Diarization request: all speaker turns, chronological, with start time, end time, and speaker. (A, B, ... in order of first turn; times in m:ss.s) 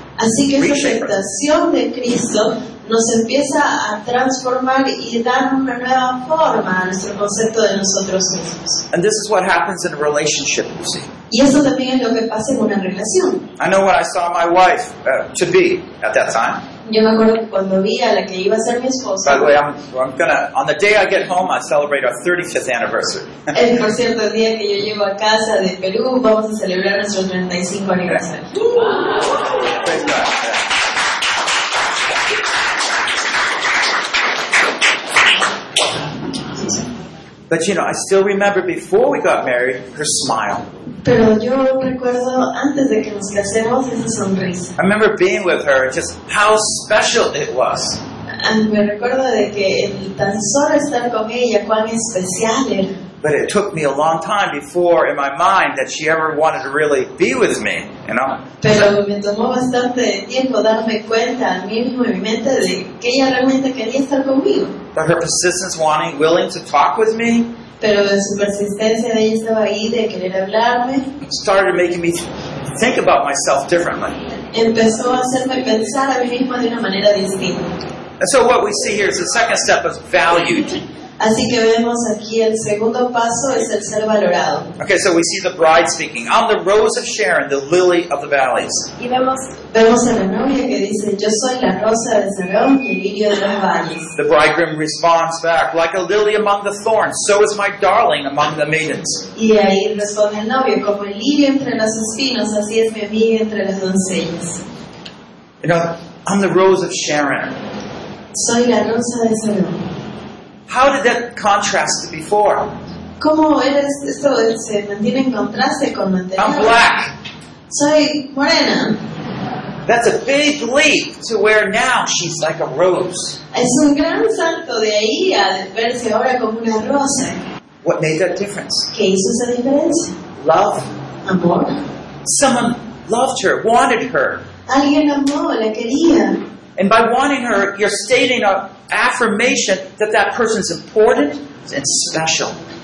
0:00.2-0:08.8 A
0:00.6-0:01.1 B
0:08.9-0:11.1 B
0:11.3-0:13.4 A
0:13.6-0:16.6 B
0:16.8-0:19.5 A
0:19.2-0:23.6 B
0:23.5-0:29.0 A
0:29.5-0:30.6 B
0:37.5-0:40.6 B
0:41.0-0:44.7 A
0:44.8-0:48.0 B
0:48.4-0:52.9 A
0:53.2-0:58.8 B
0:58.6-1:04.8 A
1:04.9-1:07.4 B
1:07.8-1:11.1 A
1:11.2-1:14.2 B
1:14.5-1:17.7 A
1:18.2-1:20.8 B
1:21.2-1:24.7 A
1:24.8-1:28.9 B
1:29.0-1:34.1 A
1:34.1-1:39.2 B
1:39.3-1:44.6 A
1:45.6-1:47.5 B
1:48.3-1:49.8 A
1:50.7-1:52.7 B
1:53.2-1:56.8 A
1:56.4-1:57.1 B
1:57.7-1:59.0 A
1:59.8-2:03.4 B
2:03.5-2:07.4 A
2:07.8-2:08.9 B
2:08.9-2:10.1 A
2:10.4-2:10.9 B
2:11.2-2:11.8 A
2:12.2-2:14.4 B
2:14.7-2:16.4 A
2:16.8-2:22.6 B